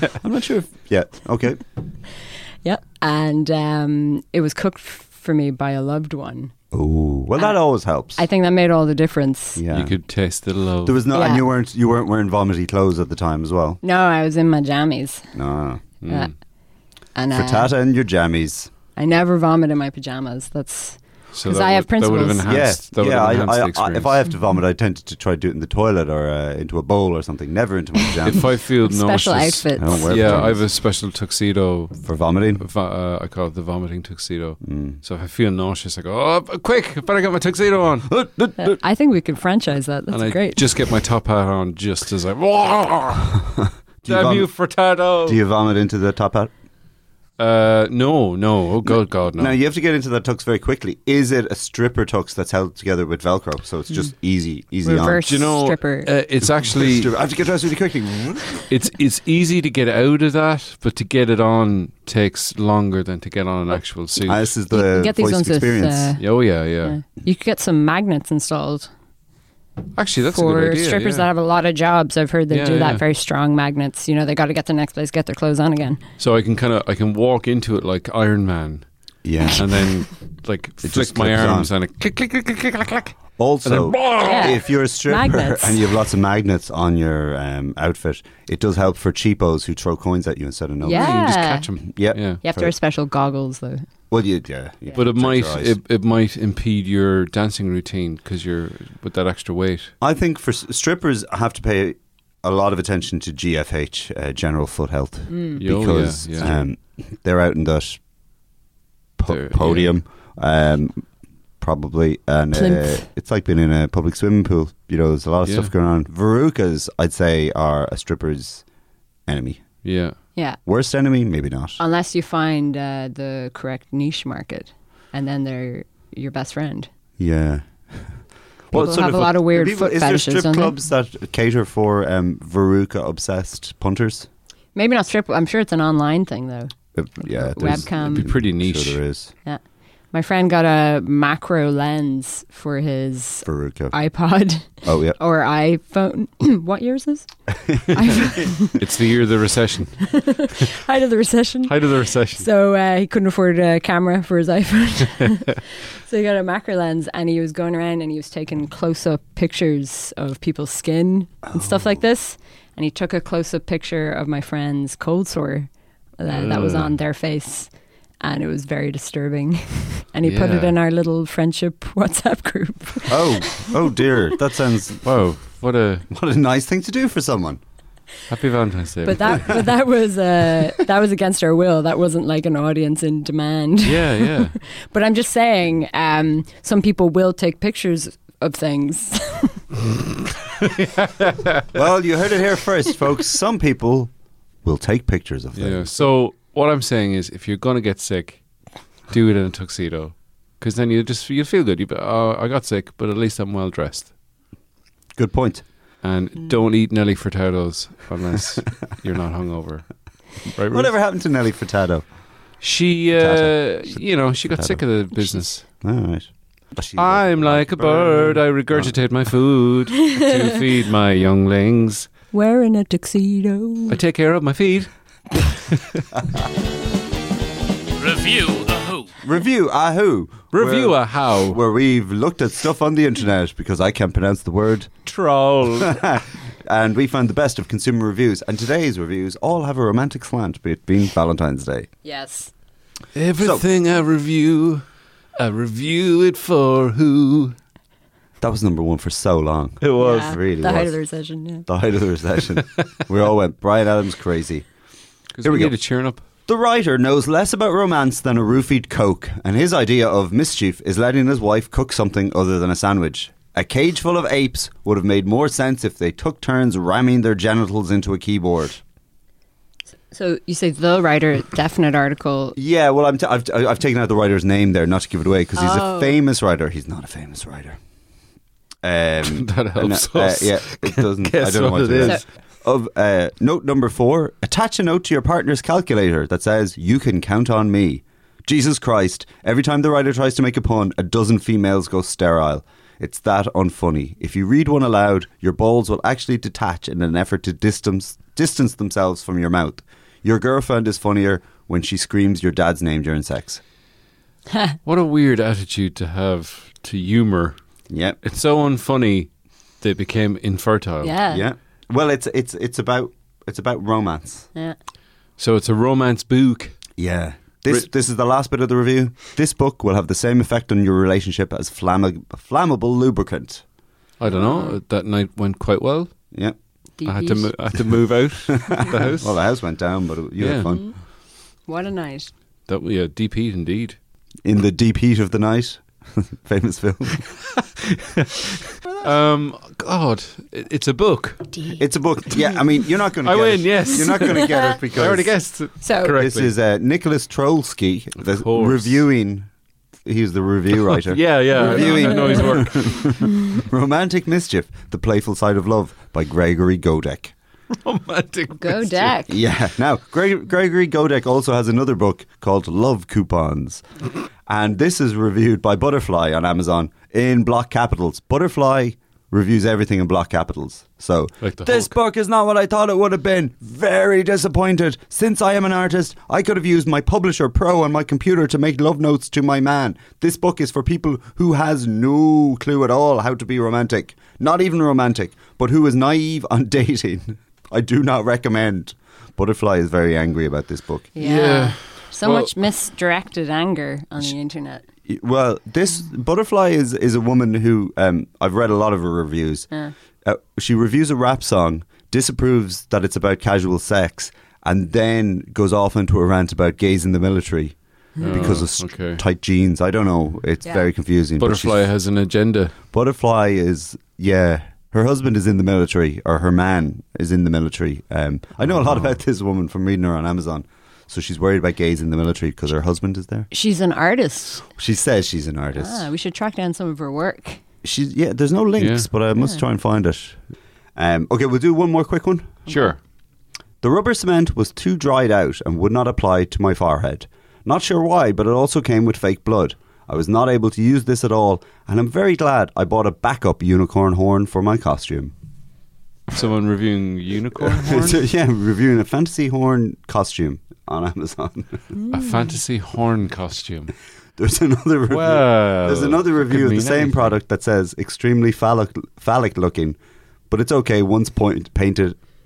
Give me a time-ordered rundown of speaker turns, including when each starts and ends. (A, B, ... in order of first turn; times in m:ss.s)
0:00.2-0:01.6 A
0:02.6-0:06.5 B
0:06.7-0:08.2 A
0:08.2-0:09.6 B
0:09.6-0:09.9 A
0:09.7-0:11.0 C
0:10.8-0:13.8 A
0:11.1-0:11.4 B
0:13.8-0:15.3 B
0:15.3-0:15.8 A
0:16.0-0:16.3 C
0:16.0-0:16.3 B
0:17.1-0:17.7 B
0:17.3-0:18.7 A
0:19.0-0:22.5 B
0:21.3-0:24.2 C
0:22.4-0:28.5 A
0:28.2-0:32.0 C
0:28.8-0:30.6 B
0:29.8-0:30.6 A
0:32.0-0:32.6 A
0:32.6-0:38.1 C
0:34.6-0:35.0 A
0:38.1-0:38.8 A
0:38.6-0:40.6 B
0:40.1-0:43.4 C
0:43.6-0:44.5 A
0:44.0-0:45.4 C
0:45.2-0:46.5 A
0:47.4-0:49.6 C
0:49.4-0:55.2 A
0:54.8-0:56.1 B
0:55.2-0:57.1 C
0:56.7-0:58.7 A
0:58.7-1:04.5 C
1:04.2-1:06.1 A
1:04.7-1:08.9 B
1:06.2-1:07.0 C
1:09.9-1:11.3 C
1:10.3-1:16.0 B
1:12.5-1:13.0 C
1:16.2-1:18.8 C
1:19.2-1:19.7 A
1:19.5-1:24.6 C
1:20.8-1:21.7 A
1:23.4-1:31.2 A
1:24.2-1:25.9 B
1:30.8-1:31.8 B
1:30.9-1:32.4 C
1:31.8-1:32.7 A
1:32.4-1:33.8 B
1:34.1-1:35.8 A
1:34.9-1:39.9 C
1:40.0-1:48.0 A
1:45.3-1:45.6 B
1:45.6-1:46.6 C
1:49.2-1:51.0 A
1:49.3-1:49.9 C
1:51.6-1:58.6 A
1:52.5-1:53.0 B
1:55.4-1:55.7 C
1:59.3-1:59.6 A
1:59.8-2:00.2 C
2:00.3-2:00.6 B
2:00.6-2:01.8 A
2:01.8-2:06.9 B
2:07.2-2:14.3 A
2:08.7-2:10.8 B
2:14.7-2:18.3 B
2:16.9-2:19.3 A
2:17.9-2:19.0 C
2:19.4-2:27.3 B
2:23.4-2:23.9 A
2:24.8-2:25.2 A
2:27.6-2:28.4 A
2:27.8-2:28.8 B
2:28.8-2:30.6 C
2:30.0-2:54.2 B
2:31.6-2:32.5 C
2:46.3-2:47.0 C
2:50.2-2:50.7 C
2:53.1-2:55.0 A
2:55.0-2:56.1 C
2:56.1-2:57.6 A
2:58.3-2:59.6 C
2:59.0-3:09.6 B
3:03.8-3:04.6 C
3:10.6-3:11.7 C
3:11.7-3:14.1 A
3:14.6-3:16.0 A
3:15.5-3:18.4 C
3:19.1-3:24.1 C
3:25.2-3:25.6 A
3:26.0-3:29.9 C
3:30.4-3:30.9 C
3:30.7-3:32.0 A
3:32.6-3:35.6 C
3:33.2-3:34.0 A
3:34.5-3:34.8 A
3:35.8-3:39.0 A
3:37.0-3:42.1 C
3:40.1-3:40.5 B
3:42.3-3:44.0 B
3:43.9-3:46.1 C
3:48.0-3:49.1 C
3:49.2-3:54.9 A
3:50.5-3:51.6 C
3:55.0-3:56.1 C
3:55.8-4:01.9 A
4:02.0-4:02.5 B
4:03.1-4:04.8 C
4:03.4-4:03.6 A
4:05.4-4:07.6 C
4:08.4-4:10.9 A
4:09.8-4:10.4 C
4:10.0-4:11.7 B
4:11.7-4:14.6 A
4:15.3-4:16.2 C
4:15.4-4:15.7 A
4:16.4-4:28.8 A
4:30.1-4:32.6 B
4:32.6-4:37.8 A
4:35.5-4:36.2 B
4:38.8-5:03.6 A
4:39.2-4:42.2 C
5:04.5-5:04.8 B
5:04.8-5:07.6 C
5:07.9-5:08.2 A
5:08.2-5:09.3 C
5:09.8-5:11.2 C
5:11.0-5:11.4 B
5:11.3-5:14.5 A
5:15.4-5:16.8 C
5:17.0-5:23.6 A
5:24.2-5:26.1 C
5:24.2-5:24.8 B
5:27.0-5:27.5 B
5:27.0-5:29.4 C
5:28.6-5:30.9 A
5:30.4-5:30.7 C
5:31.7-5:32.3 B
5:32.7-5:34.0 C
5:34.4-5:37.2 A
5:37.6-5:41.5 C
5:41.5-5:41.8 B
5:41.8-5:45.3 A
5:43.2-5:46.5 C
5:44.2-5:44.7 B
5:45.8-5:46.2 B
5:46.1-5:49.5 A
5:48.2-5:49.0 C
5:50.0-5:57.3 A
5:50.7-5:53.2 C
5:51.6-5:52.5 B
5:57.7-5:59.2 C
5:58.6-5:59.3 B
5:59.3-6:03.8 A
6:04.5-6:31.1 A
6:11.4-6:11.9 C
6:31.1-6:34.8 B
6:31.2-6:32.5 C
6:35.0-6:39.7 A
6:40.2-6:51.9 A
6:48.2-6:48.6 B
6:48.2-6:49.2 C
6:51.4-6:52.8 C
6:52.9-7:03.5 A
6:58.7-6:59.2 C
7:03.5-7:04.7 B
7:04.8-7:06.0 A
7:05.7-7:07.6 B
7:07.8-7:10.4 A
7:08.8-7:09.1 C
7:09.4-7:09.6 B
7:11.0-7:12.6 A
7:12.7-7:12.9 B
7:12.7-7:13.0 C
7:13.8-7:25.3 A
7:26.3-7:28.2 C
7:27.6-7:31.9 A
7:32.1-7:33.9 C
7:34.4-7:40.0 A
7:35.1-7:37.3 C
7:40.5-7:42.2 A